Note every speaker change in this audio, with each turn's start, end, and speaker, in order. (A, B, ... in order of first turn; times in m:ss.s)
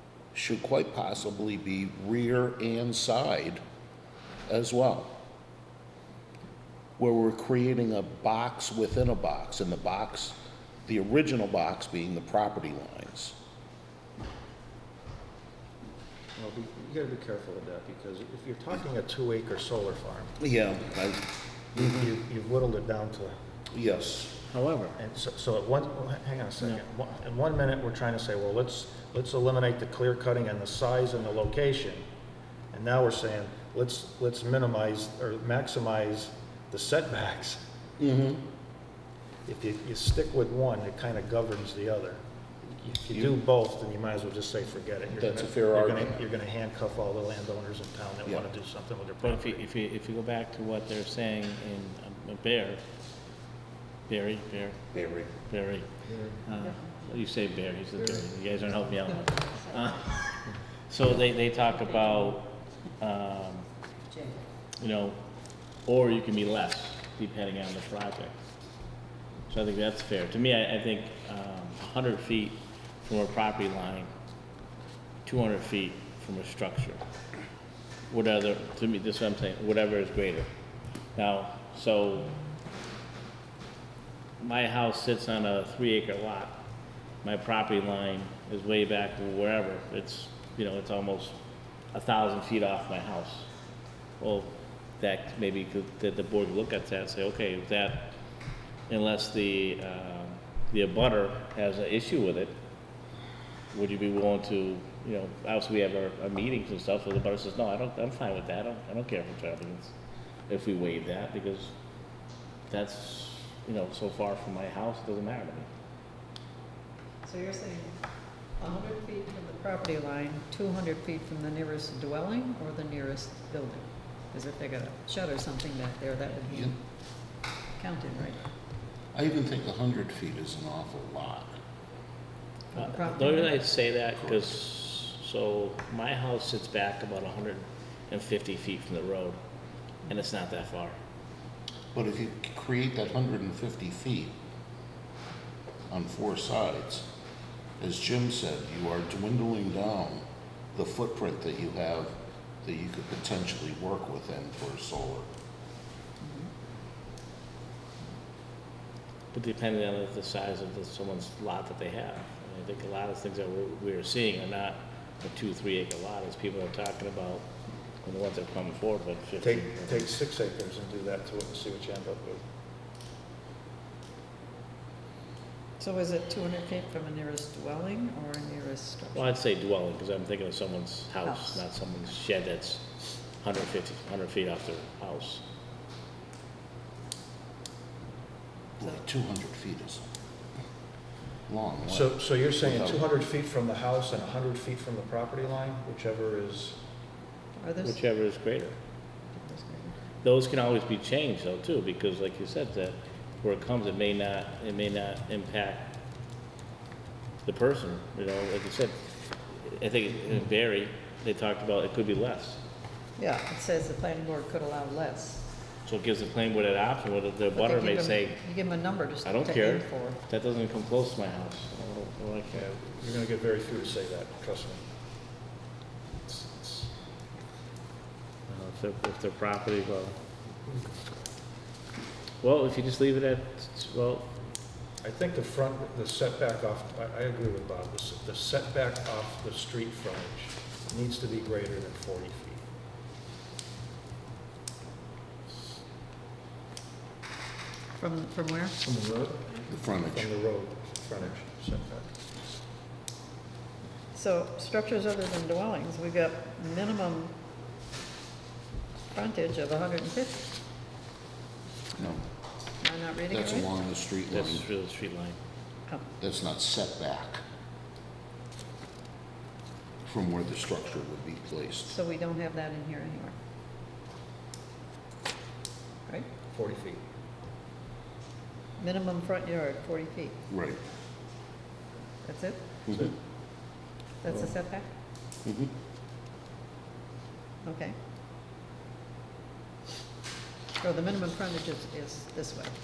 0:00.3-0:03.6 A
0:04.5-0:05.2 A
0:07.0-0:13.4 A
0:16.4-0:20.4 B
0:20.4-0:21.9 A
0:21.7-0:23.4 B
0:23.7-0:24.4 A
0:24.5-0:25.0 C
0:25.0-0:32.0 B
0:32.7-0:37.6 B
0:38.0-0:38.4 A
0:39.4-0:42.2 B
0:42.8-0:49.6 B
0:45.2-0:46.2 A
0:49.2-0:52.8 C
0:54.1-0:54.8 C
0:54.9-0:55.3 A
0:55.5-0:55.9 C
0:56.5-1:03.6 C
1:04.1-1:04.4 D
1:04.8-1:05.2 C
1:05.8-1:08.3 C
1:09.5-1:14.1 C
1:15.2-1:17.0 C
1:18.1-1:20.5 C
1:21.1-1:22.4 C
1:24.4-1:26.6 C
1:27.2-1:31.4 C
1:31.9-1:33.5 C
1:34.2-1:38.2 C
1:38.9-1:42.5 C
1:43.7-1:49.9 C
1:50.5-1:51.7 C
1:52.7-1:55.7 C
1:57.2-1:57.9 D
1:58.6-2:06.8 D
2:07.8-2:08.4 D
2:09.1-2:11.6 A
2:12.7-2:13.6 D
2:12.7-2:19.4 C
2:20.1-2:21.0 C
2:21.9-2:24.3 A
2:25.9-2:27.1 A
2:27.8-2:35.3 A
2:36.2-2:36.5 D
2:39.3-2:47.5 C
2:48.0-2:50.1 C
2:49.4-2:52.4 B
2:55.8-2:59.3 D
2:59.1-3:05.4 C
3:01.2-3:01.6 D
3:08.8-3:10.1 A
3:11.5-3:13.0 A
3:11.8-3:16.8 B
3:17.6-3:18.0 D
3:17.8-3:18.8 C
3:19.3-3:20.0 D
3:20.2-3:25.9 C
3:27.4-3:29.0 C
3:29.5-3:32.6 C
3:33.2-3:35.4 D
3:35.8-3:38.4 C
3:37.5-3:40.2 D
3:39.2-3:42.7 C
3:42.5-3:44.8 B
3:46.2-3:46.9 B
3:48.5-3:50.2 C
3:52.4-3:54.3 C
3:55.0-4:02.6 B
4:08.0-4:08.8 D
4:08.8-4:12.1 B
4:09.7-4:10.3 A
4:14.1-4:17.3 D
4:19.1-4:20.5 D
4:21.9-4:22.2 A
4:22.8-4:23.7 D
4:23.3-4:24.7 A
4:24.3-4:25.4 C
4:26.2-4:27.4 A
4:30.0-4:31.9 A
4:31.8-4:33.4 D
4:36.5-4:37.0 B
4:38.8-4:40.4 D
4:40.5-4:40.8 A
4:42.2-4:42.6 D
4:44.2-4:44.9 D
4:45.4-4:45.7 A
4:47.6-4:48.0 D
4:50.8-4:52.7 D